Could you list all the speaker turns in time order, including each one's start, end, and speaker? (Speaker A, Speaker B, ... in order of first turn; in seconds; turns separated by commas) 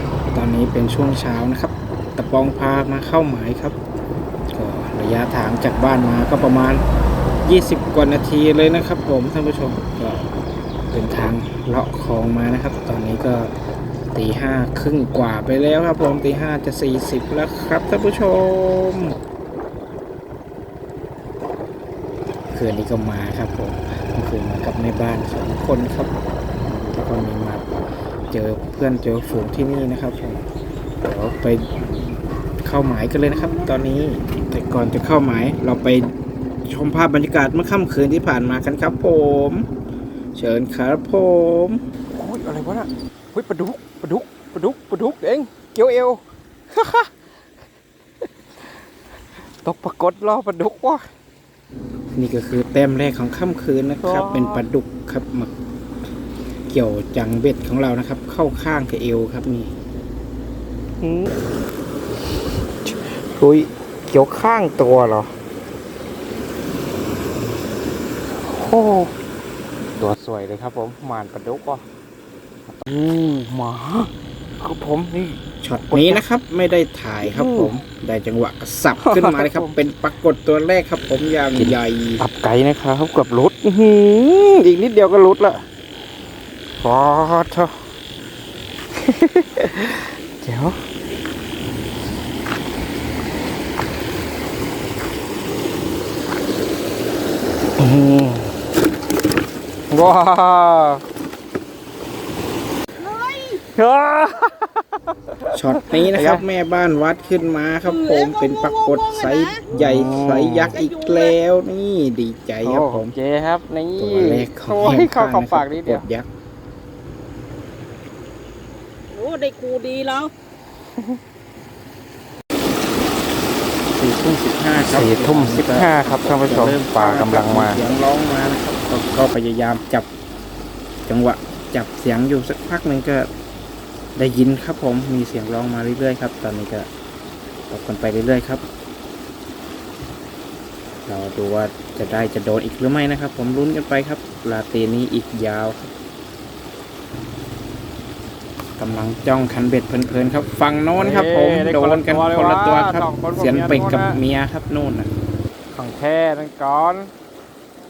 Speaker A: 0.3-3.8, Speaker A: 4.5-6.8, Speaker A: 7.5-10.3, Speaker A: 10.9-13.5, Speaker A: 14.1-19.2, Speaker A: 22.5-26.1, Speaker A: 26.6-27.6, Speaker A: 28.3-30.4, Speaker A: 31.0-32.0, Speaker A: 32.6-36.1, Speaker A: 36.7-39.7, Speaker A: 40.4-41.8, Speaker B: 42.1-47.1, Speaker B: 49.6-51.1, Speaker A: 52.2-55.5, Speaker B: 54.0-54.6, Speaker A: 56.7-59.7, Speaker B: 61.0-61.3, Speaker B: 62.9-65.3, Speaker B: 68.4-69.1, Speaker B: 70.0-71.8, Speaker B: 72.7-76.2, Speaker A: 75.6-82.2, Speaker B: 77.2-77.7, Speaker B: 79.0-79.8, Speaker B: 81.5-85.6, Speaker B: 86.8-87.8, Speaker B: 89.0-90.8, Speaker B: 97.8-98.5, Speaker B: 99.9-101.0, Speaker B: 103.5-106.5, Speaker A: 105.5-113.1, Speaker C: 108.2-109.6, Speaker B: 109.7-110.8, Speaker B: 112.6-116.0, Speaker A: 114.0-116.3, Speaker C: 119.1-120.3, Speaker A: 124.0-130.1, Speaker B: 124.9-127.8, Speaker A: 131.1-133.3, Speaker A: 134.2-136.9, Speaker A: 137.7-138.6, Speaker A: 141.1-145.9, Speaker A: 148.8-155.1, Speaker B: 150.9-154.2, Speaker B: 155.7-157.1